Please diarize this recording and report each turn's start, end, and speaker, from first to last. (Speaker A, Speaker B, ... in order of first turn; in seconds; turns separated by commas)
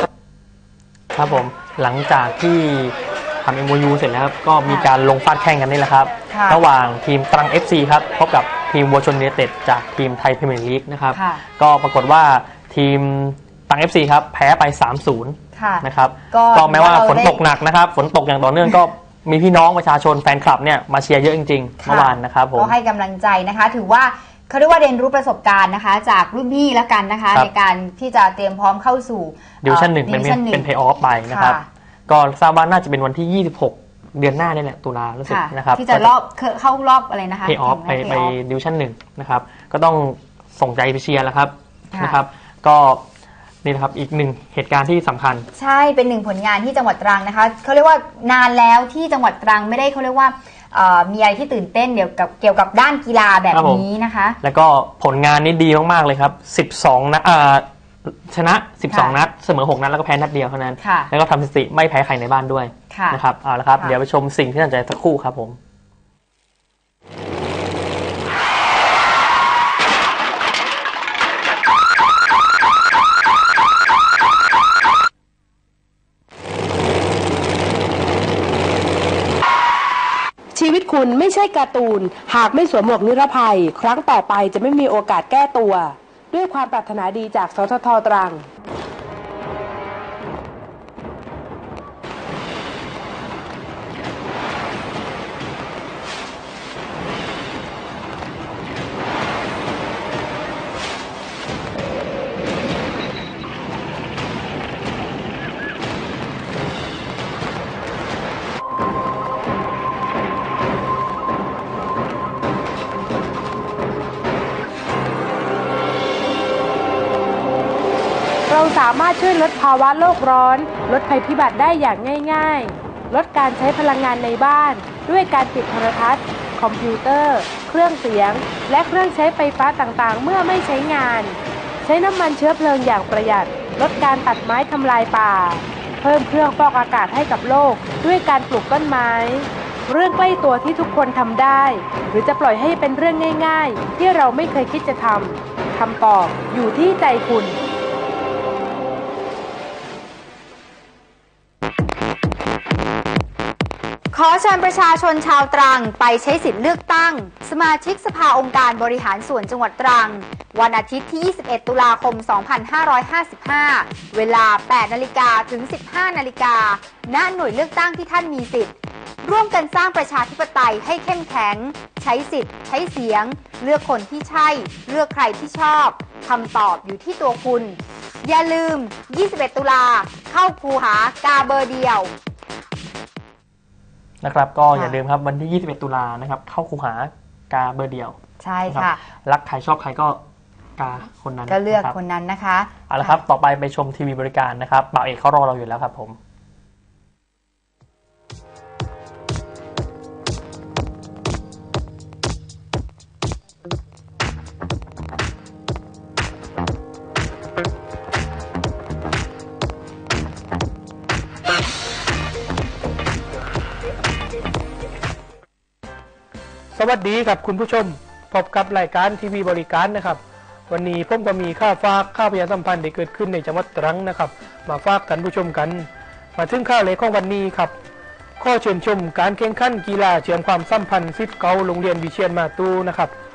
Speaker A: 1.1-22.7, Speaker B: 4.7-4.9, Speaker B: 6.3-6.6, Speaker B: 11.1-11.4, Speaker B: 15.5-17.4, Speaker B: 21.8-30.7, Speaker A: 29.6-36.1, Speaker B: 31.3-31.6, Speaker B: 35.3-38.4, Speaker A: 37.5-43.0, Speaker B: 41.9-42.2, Speaker A: 43.6-45.5, Speaker B: 45.5-54.4, Speaker A: 53.5-53.8, Speaker A: 54.4-65.6, Speaker B: 58.9-59.2, Speaker B: 60.8-61.1, Speaker B: 62.9-63.2, Speaker C: 80.5-88.4, Speaker C: 118.5-147.6, Speaker B: 154.1-182.1, Speaker A: 184.2-188.2, Speaker B: 184.7-185.0, Speaker B: 188.4-189.0, Speaker A: 188.7-190.2, Speaker A: 190.8-191.9, Speaker B: 191.5-193.2, Speaker A: 192.9-196.2, Speaker D: 216.7-227.7, Speaker D: 228.4-233.1